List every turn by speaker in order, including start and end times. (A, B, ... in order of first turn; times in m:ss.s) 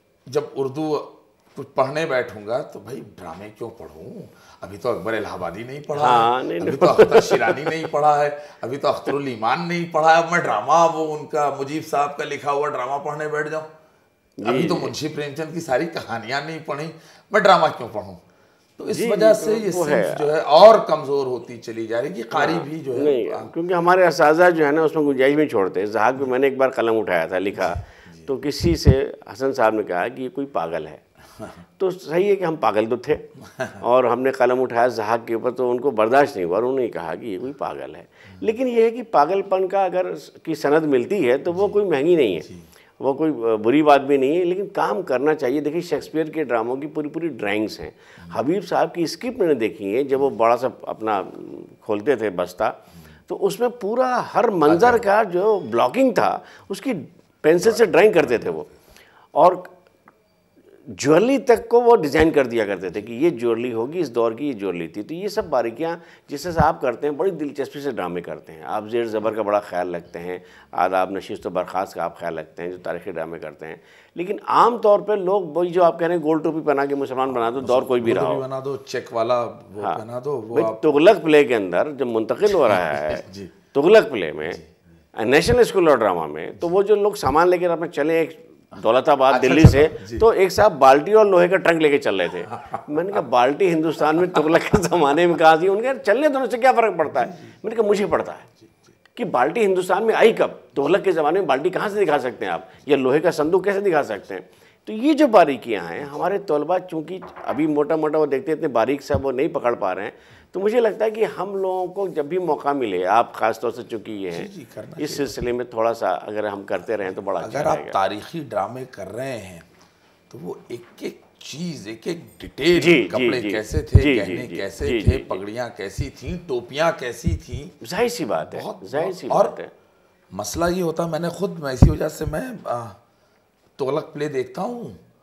0:00.3-0:13.7 A
0:06.0-0:07.8 B
0:14.4-0:14.9 B
0:14.4-0:18.2 A
0:18.8-0:23.5 A
0:18.9-0:20.3 B
0:22.3-0:31.0 B
0:27.6-0:28.3 A
0:31.8-0:33.3 B
0:33.4-0:33.8 A
0:33.8-0:42.5 B
0:43.0-0:58.7 B
0:54.7-0:55.0 A
0:57.7-0:58.5 A
0:59.4-0:59.7 B
1:00.9-1:18.4 B
1:17.3-1:21.0 A
1:20.5-1:24.6 B
1:22.5-1:23.5 A
1:25.2-1:38.5 B
1:29.3-1:30.3 A
1:32.5-1:33.2 A
1:37.2-1:37.5 A
1:39.2-1:58.0 B
1:54.3-1:55.4 A
1:57.4-1:59.7 A
2:00.3-2:07.8 A
2:02.8-2:05.4 B
2:07.8-2:09.7 B
2:08.4-2:09.6 A
2:10.3-2:13.0 A
2:13.8-2:15.0 A